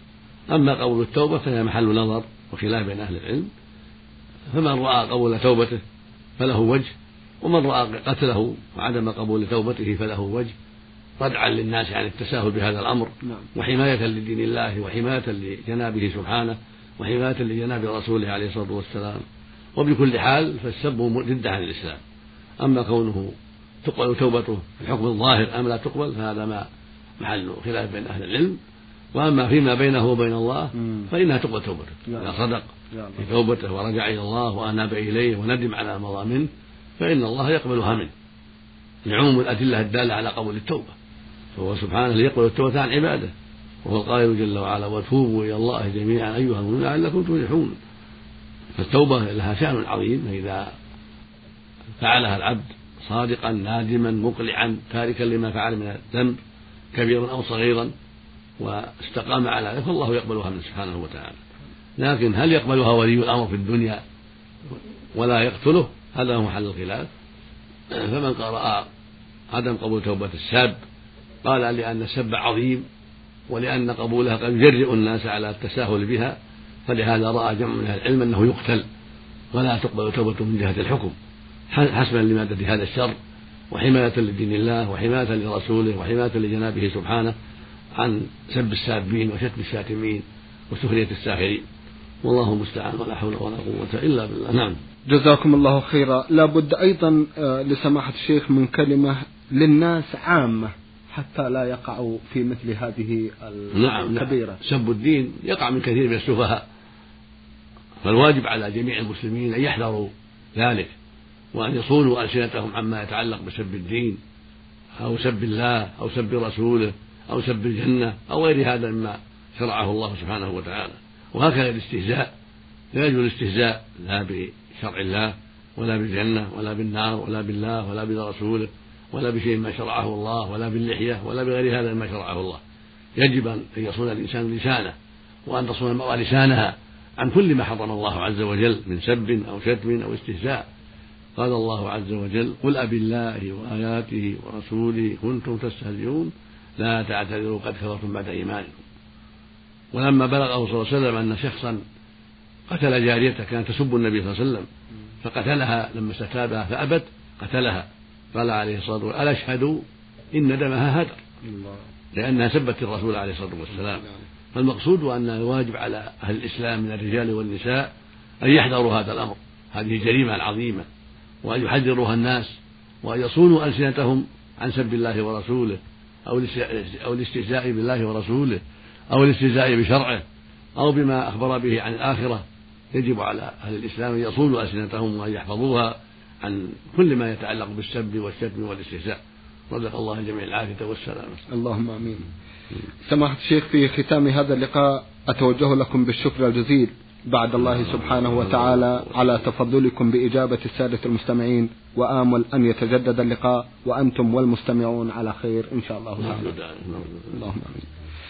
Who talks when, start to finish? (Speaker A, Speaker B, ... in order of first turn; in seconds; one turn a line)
Speaker A: 0.5-3.5
Speaker A: 4.5-5.8
Speaker A: 6.4-10.5
Speaker A: 11.2-19.2
Speaker A: 19.8-22.0
Speaker A: 22.6-26.7
Speaker A: 27.2-28.6
Speaker A: 29.1-36.5
Speaker B: 30.8-31.1
Speaker B: 32.1-32.3
Speaker B: 32.9-33.2
Speaker A: 37.0-38.1
Speaker A: 39.0-40.9
Speaker A: 41.5-43.3
Speaker A: 43.8-47.8
Speaker A: 48.7-50.7
Speaker A: 52.0-56.4
Speaker A: 56.9-57.9
Speaker A: 58.6-61.4
Speaker A: 62.0-64.0
Speaker A: 65.1-67.1
Speaker A: 67.9-68.9
Speaker A: 69.5-70.8
Speaker A: 71.4-72.9
Speaker A: 73.5-76.3
Speaker A: 76.9-78.8
Speaker A: 79.5-81.2
Speaker A: 81.7-83.1
Speaker A: 83.7-87.3
Speaker A: 88.0-91.6
Speaker A: 92.2-94.8
Speaker B: 95.1-104.6
Speaker A: 103.7-106.6
Speaker A: 108.0-110.9
Speaker A: 111.5-114.2
Speaker A: 115.0-122.3
Speaker A: 122.9-132.6
Speaker A: 133.2-140.7
Speaker A: 141.3-148.8
Speaker A: 149.9-151.8
Speaker A: 152.7-154.7
Speaker A: 155.2-161.2
Speaker B: 161.5-161.8
Speaker A: 162.1-170.9
Speaker A: 171.4-180.2
Speaker A: 180.8-191.4
Speaker B: 191.5-192.3
Speaker B: 193.1-206.6
Speaker A: 197.8-199.1
Speaker A: 206.2-207.4
Speaker B: 207.3-207.8